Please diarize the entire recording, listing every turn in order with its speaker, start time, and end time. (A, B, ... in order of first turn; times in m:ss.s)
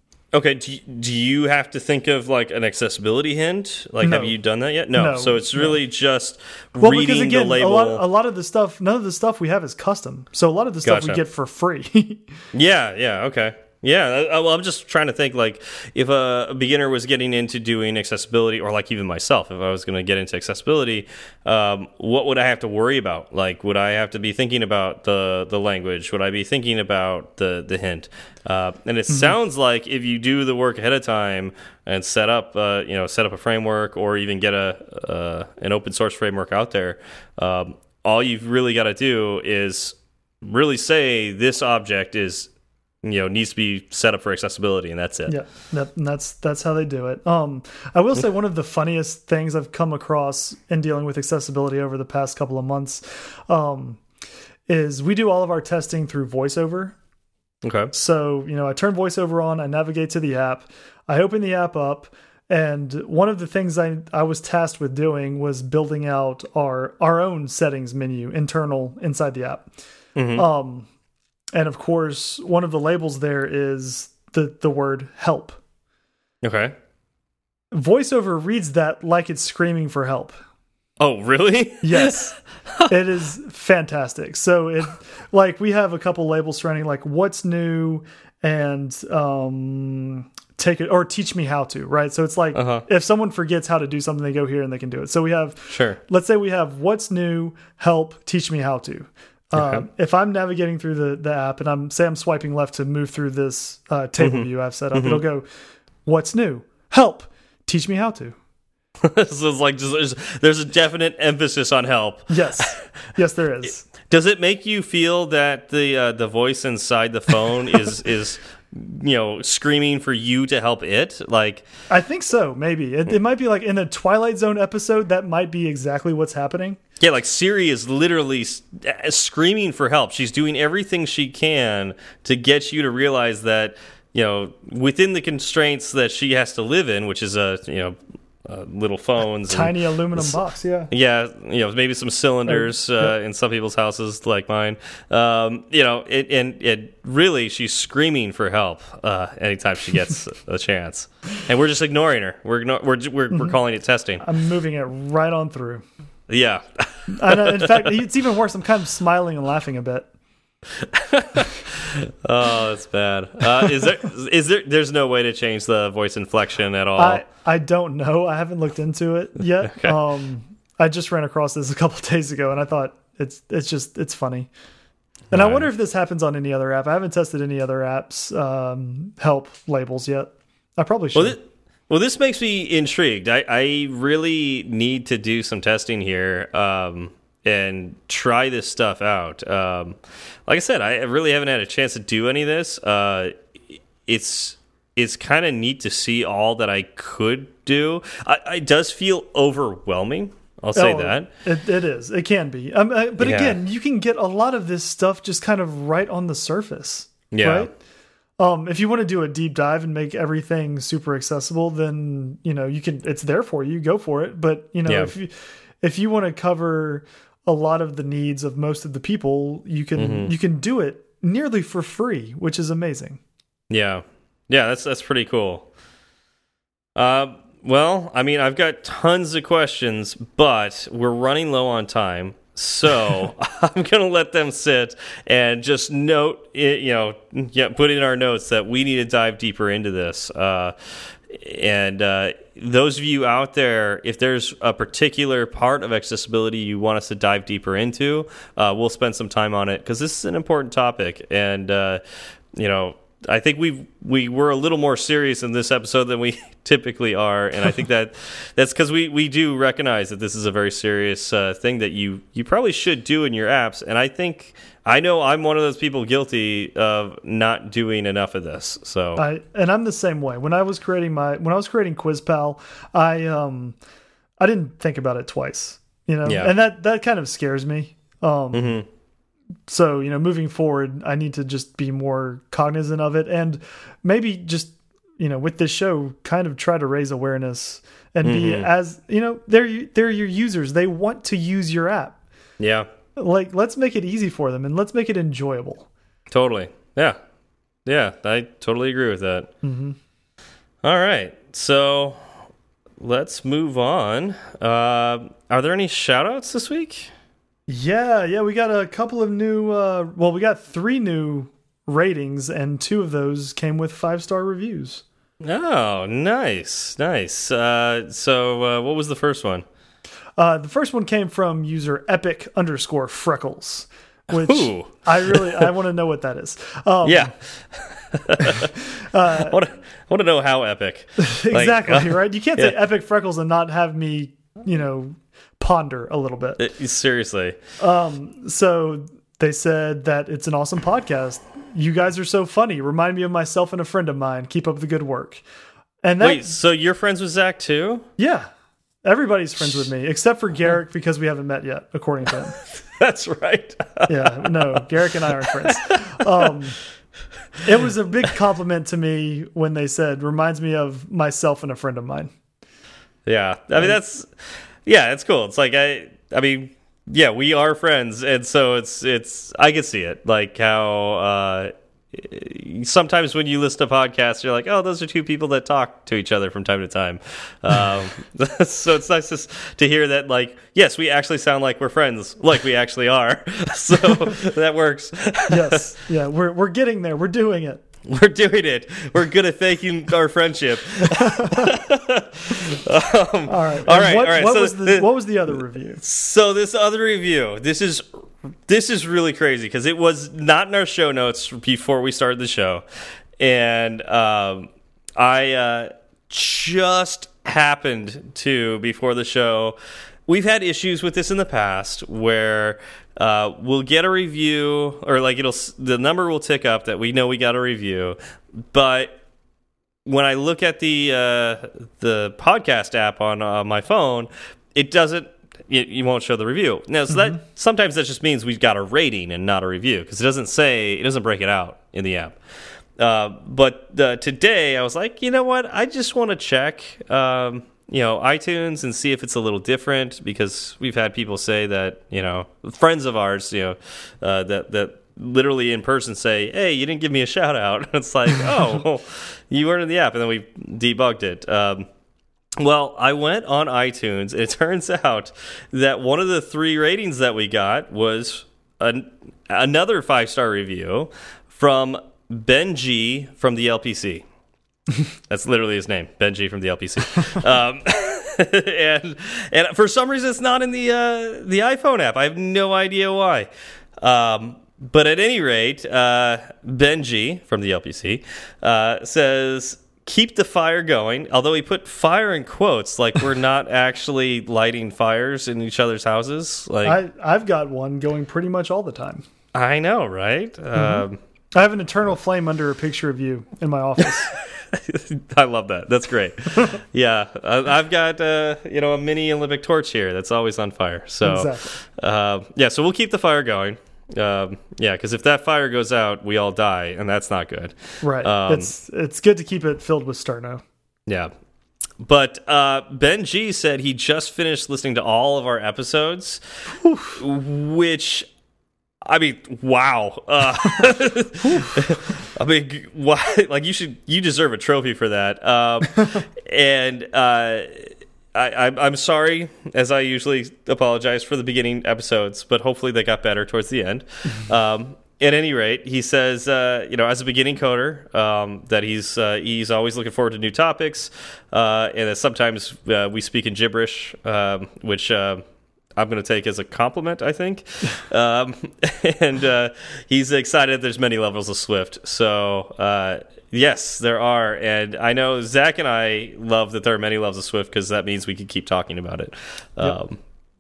0:00.3-0:08.0 A
0:04.0-0:04.3 B
0:04.9-0:05.7 B
0:06.8-0:12.2 B
0:10.8-0:11.2 A
0:12.5-0:42.5 A
0:29.1-0:29.3 B
0:43.0-0:45.3 A
0:45.3-0:54.0 B
0:54.7-0:57.0 B
0:57.6-0:57.9 A
0:57.9-1:09.7 B
1:10.1-1:10.4 A
1:10.3-1:10.9 B
1:11.5-1:15.6 B
1:16.4-1:16.7 A
1:17.7-1:20.4 B
1:21.0-1:22.9 A
1:21.8-1:22.4 B
1:22.9-1:45.4 B
1:32.5-1:32.8 A
1:35.7-1:36.0 A
1:39.5-1:39.8 A
1:44.2-1:45.2 A
1:46.0-1:48.4 B
1:49.0-1:52.8 A
1:52.3-1:53.8 B
1:54.0-2:01.7 A
2:01.9-2:06.8 B
2:07.0-2:20.4 A
2:19.5-2:20.9 B
2:20.9-2:34.2 A
2:22.5-2:23.1 B
2:33.3-2:33.6 B
2:34.2-2:35.8 B
2:36.3-2:37.9 A
2:37.1-2:40.1 B
2:40.8-2:47.2 A
2:47.0-2:54.5 B
2:49.6-2:50.0 A
2:55.3-2:55.7 A
2:55.3-3:01.4 B
3:01.1-3:13.3 A
3:14.0-3:21.3 A
3:20.7-3:27.7 B
3:23.2-3:23.6 A
3:27.3-3:27.7 A
3:28.4-3:43.2 B
3:34.9-3:35.1 A
3:40.0-3:40.3 A
3:43.7-3:45.7 A
3:46.9-4:00.7 A
4:01.3-4:12.0 A
4:12.5-4:29.2 A
4:29.2-4:33.8 B
4:34.4-4:38.8 B
4:36.2-4:36.5 A
4:38.5-4:38.8 A
4:39.7-4:52.2 B
4:48.2-4:48.7 A
4:52.6-4:52.9 A
4:53.2-4:55.9 B
4:56.3-4:57.2 A
4:57.8-4:59.5 A
4:59.6-5:00.0 B
5:00.8-5:02.2 A
5:03.0-5:07.1 A
5:07.7-5:15.0 B
5:15.4-5:19.6 A
5:20.4-5:27.3 B
5:24.3-5:25.7 A
5:27.0-5:28.7 A
5:28.4-5:29.6 B
5:29.3-5:32.8 A
5:31.2-5:36.6 B
5:36.6-5:37.6 A
5:37.8-5:45.4 B
5:46.0-5:46.5 B
5:46.2-5:48.0 A
5:48.2-5:48.5 B
5:49.0-5:52.6 B
5:52.8-5:54.8 A
5:54.1-5:56.8 B
5:55.4-5:55.7 A
5:57.6-6:02.3 B
6:03.2-6:04.3 A
6:04.8-6:25.8 A
6:25.5-6:27.8 B
6:28.0-6:35.1 A
6:31.2-6:31.7 B
6:33.5-6:36.0 B
6:36.0-6:42.8 A
6:43.4-6:59.2 A
7:00.0-7:12.4 A
7:13.0-7:31.9 A
7:32.6-7:44.2 A
7:45.3-8:07.0 A
8:06.8-8:09.2 B
8:09.5-8:11.2 A
8:10.7-8:11.0 B
8:11.5-8:14.3 B
8:14.0-8:28.7 A
8:21.2-8:21.7 B
8:28.0-8:30.6 B
8:31.0-8:31.3 A
8:32.0-8:36.4 A
8:36.8-8:37.2 B
8:37.2-8:38.3 A
8:39.0-9:05.4 A
9:06.0-9:20.2 A